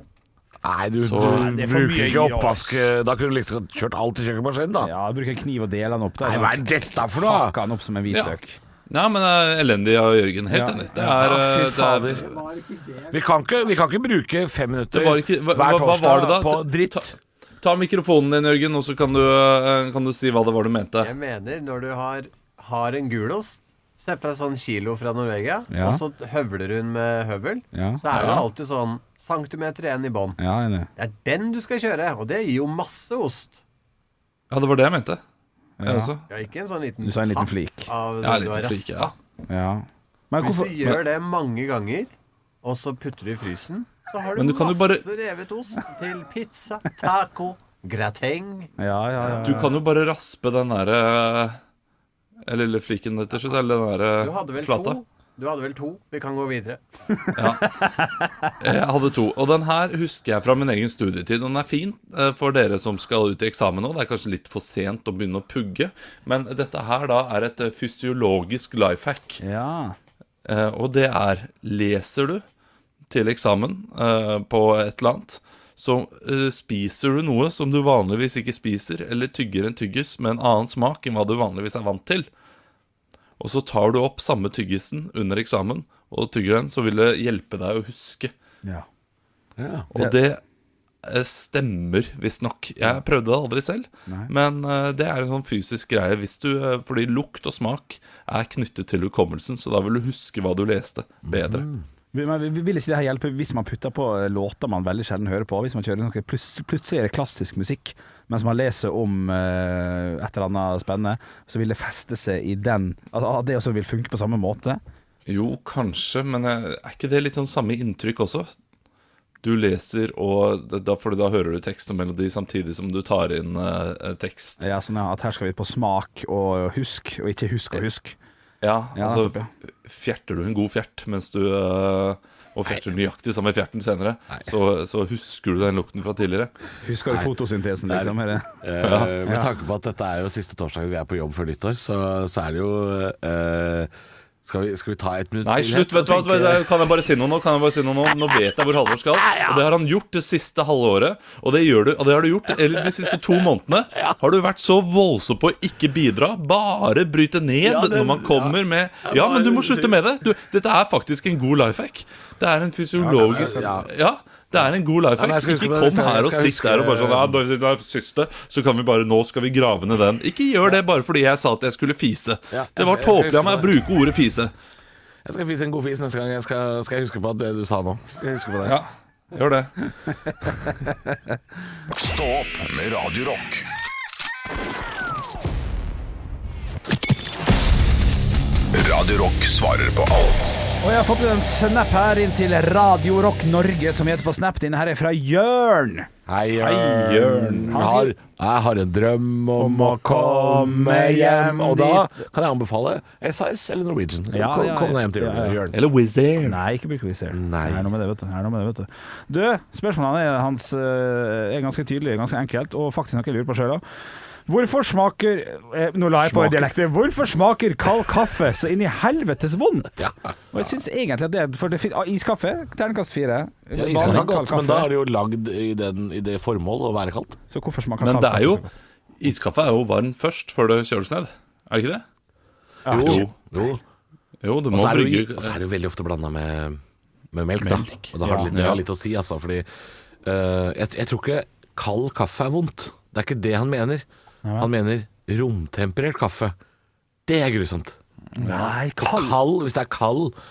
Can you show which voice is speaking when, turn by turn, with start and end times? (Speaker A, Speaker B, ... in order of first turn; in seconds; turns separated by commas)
Speaker A: 0.6-4.9, Speaker B: 1.1-2.9, Speaker C: 1.1-1.5, Speaker B: 4.8-8.6, Speaker A: 6.2-7.6, Speaker C: 8.9-12.4, Speaker B: 10.5-11.2, Speaker A: 11.0-12.3, Speaker A: 12.8-17.1, Speaker C: 14.9-17.1, Speaker C: 17.6-21.1, Speaker D: 21.0-30.4, Speaker B: 25.7-26.0, Speaker B: 27.7-28.0, Speaker C: 28.1-28.5, Speaker B: 30.4-30.9, Speaker D: 31.0-33.6, Speaker C: 34.5-35.2, Speaker B: 35.8-36.1, Speaker C: 35.8-36.2, Speaker D: 36.3-39.1, Speaker B: 37.0-37.9, Speaker C: 38.2-39.1, Speaker B: 39.5-40.9, Speaker D: 40.4-42.1, Speaker D: 42.6-48.7, Speaker C: 44.4-45.0, Speaker B: 48.8-49.7, Speaker D: 49.2-49.6, Speaker C: 49.4-51.6, Speaker C: 52.5-55.0, Speaker D: 54.2-56.8, Speaker C: 57.4-58.0, Speaker B: 57.9-58.3, Speaker C: 58.6-69.4, Speaker B: 69.4-70.0, Speaker C: 70.5-72.4, Speaker C: 73.1-82.3, Speaker C: 83.4-88.3, Speaker A: 89.6-89.9, Speaker C: 89.9-90.4, Speaker C: 91.0-101.7, Speaker B: 94.1-94.3, Speaker A: 101.3-101.8, Speaker B: 102.1-114.8, Speaker C: 115.3-118.5, Speaker C: 119.4-124.6, Speaker B: 124.6-128.2, Speaker C: 128.6-136.5, Speaker B: 128.9-129.5, Speaker B: 136.8-138.6, Speaker A: 137.9-143.9, Speaker C: 138.8-139.1, Speaker B: 139.2-139.5, Speaker A: 144.4-146.7, Speaker C: 145.4-174.5, Speaker A: 149.2-149.7, Speaker A: 157.6-160.0, Speaker B: 163.0-163.4, Speaker A: 163.0-163.9, Speaker A: 165.2-167.4, Speaker A: 172.5-173.7, Speaker A: 175.2-178.8, Speaker C: 178.6-179.9, Speaker E: 181.9-183.7, Speaker E: 188.7-190.8, Speaker B: 190.8-196.1, Speaker A: 196.3-205.8, Speaker C: 196.6-197.9, Speaker B: 196.8-198.1, Speaker B: 199.6-202.1, Speaker B: 204.3-205.6, Speaker C: 205.7-206.6, Speaker B: 206.4-213.8, Speaker A: 207.3-207.9, Speaker B: 214.5-224.9, Speaker A: 216.2-216.7, Speaker A: 223.8-227.4, Speaker B: 227.5-228.7, Speaker C: 228.0-228.6, Speaker C: 229.2-232.0, Speaker B: 232.8-233.3, Speaker A: 232.9-233.8, Speaker C: 232.9-233.3, Speaker C: 234.4-235.6, Speaker A: 234.7-236.8, Speaker A: 237.3-239.7, Speaker B: 237.6-238.5, Speaker C: 238.5-238.8, Speaker A: 240.2-244.1, Speaker B: 244.4-244.7, Speaker A: 244.6-246.5, Speaker A: 247.3-248.0, Speaker B: 248.4-249.4, Speaker A: 248.5-250.3